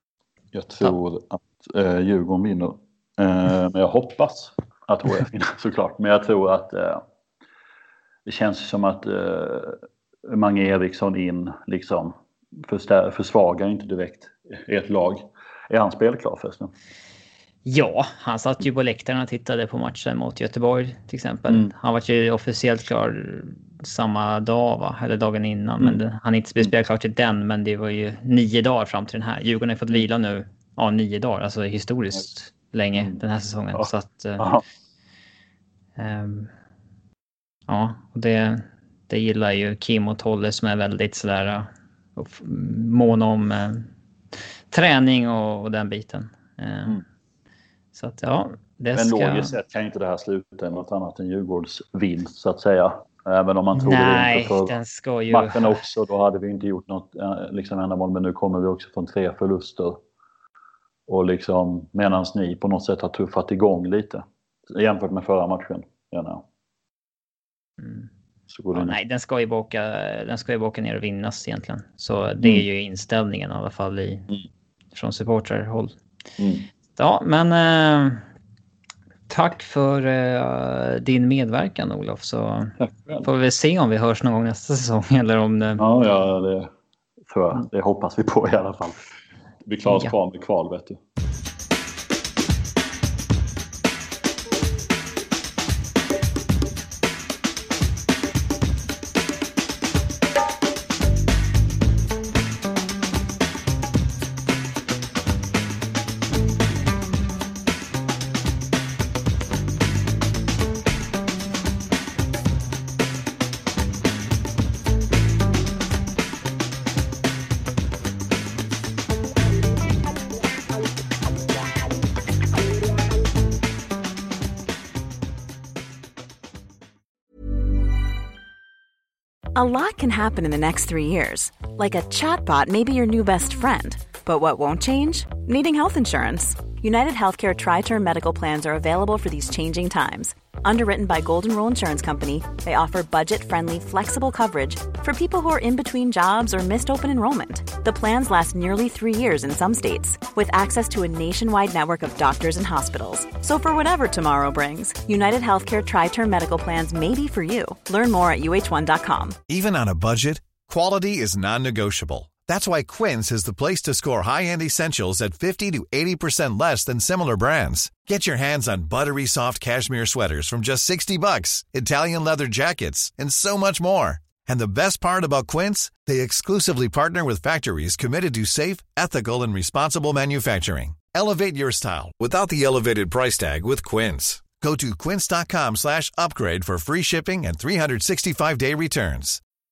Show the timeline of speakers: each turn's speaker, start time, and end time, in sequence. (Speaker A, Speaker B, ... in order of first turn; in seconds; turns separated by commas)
Speaker A: 0.5-7.0, Speaker A: 8.2-16.7, Speaker B: 17.6-34.5, Speaker A: 21.5-21.7, Speaker A: 33.7-34.6, Speaker B: 36.0-36.5, Speaker B: 37.7-43.9, Speaker B: 44.7-47.0, Speaker B: 47.9-49.5, Speaker A: 48.9-54.7, Speaker B: 53.7-55.8, Speaker A: 55.3-60.0, Speaker A: 61.1-66.5, Speaker B: 67.8-68.1, Speaker A: 68.5-69.0, Speaker B: 68.7-74.3, Speaker B: 74.9-76.0, Speaker A: 76.4-76.7, Speaker B: 76.9-78.2, Speaker B: 79.3-85.8, Speaker A: 82.8-83.3, Speaker A: 85.8-86.7, Speaker A: 87.3-89.0, Speaker A: 89.6-91.0, Speaker C: 129.5-159.4, Speaker D: 159.5-189.4